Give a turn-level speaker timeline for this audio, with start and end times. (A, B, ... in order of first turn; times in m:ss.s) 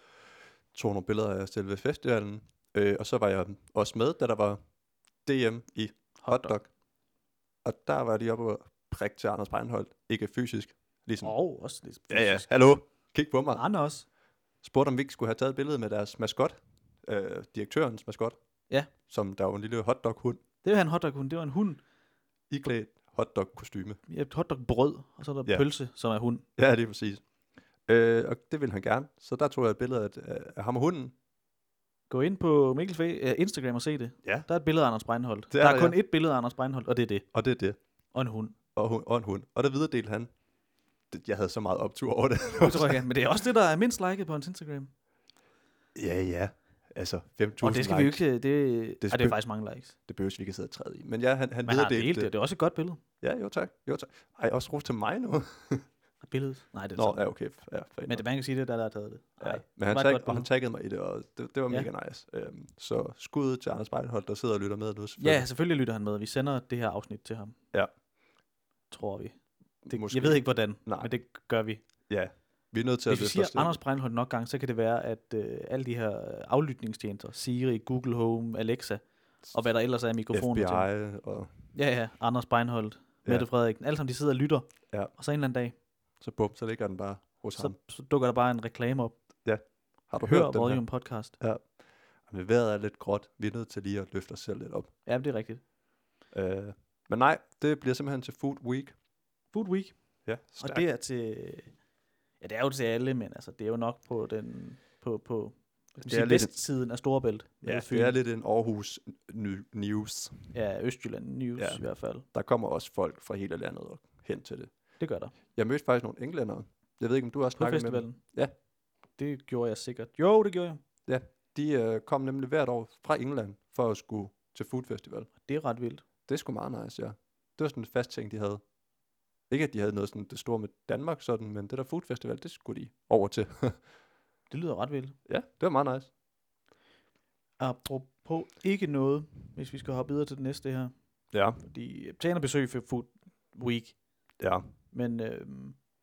0:00.7-0:04.6 A
0:05.2-0:06.7 A
0:06.2-0:06.5 B
0:07.6-0:11.3 A
0:11.2-0:12.5 B
0:12.1-0:13.6 A
0:13.6-0:14.0 B
0:14.6-0:18.4 A
0:19.0-0:20.4 A
0:20.6-0:21.8 B
0:22.5-0:24.0 A
0:24.1-0:26.4 B
0:26.6-0:27.2 A
0:27.9-0:31.1 A
0:32.1-0:37.2 B
0:35.5-0:36.0 A
0:37.3-0:37.8 A
0:38.1-0:38.6 B
0:38.7-0:40.3 A
0:41.1-0:43.0 A
0:42.6-0:44.9 B
0:45.9-0:48.2 A
0:47.6-0:49.9 B
0:49.0-0:49.4 A
0:50.1-0:52.3 A
0:51.6-0:53.0 B
0:53.2-0:55.9 A
0:56.2-0:57.2 B
0:57.0-0:58.2 A
0:58.1-1:00.4 B
0:59.4-1:05.4 A
1:05.2-1:07.6 B
1:08.9-1:11.8 B
1:09.8-1:11.1 A
1:12.1-1:13.8 A
1:13.1-1:20.9 B
1:20.3-1:21.5 A
1:21.7-1:25.7 B
1:26.2-1:27.7 A
1:27.6-1:29.1 B
1:29.4-1:30.8 A
1:30.2-1:31.4 B
1:31.4-1:31.7 A
1:32.2-1:34.9 A
1:35.0-1:35.6 B
1:36.3-1:38.9 A
1:39.5-1:39.9 B
1:40.2-1:40.8 A
1:40.6-1:41.7 B
1:42.4-1:48.2 B
1:46.0-1:46.5 A
1:47.6-1:50.5 A
1:50.5-1:52.2 B
1:52.3-1:54.7 A
1:55.0-1:55.3 B
1:55.5-1:58.5 A
1:57.6-1:58.2 B
1:59.2-2:00.8 B
2:01.1-2:05.3 A
2:05.4-2:06.0 B
2:06.3-2:08.6 A
2:09.5-2:13.8 A
2:14.5-2:15.2 B
2:15.3-2:16.1 A
2:17.6-2:20.9 B
2:21.3-2:21.6 A
2:21.6-2:24.0 B
2:24.9-2:25.8 B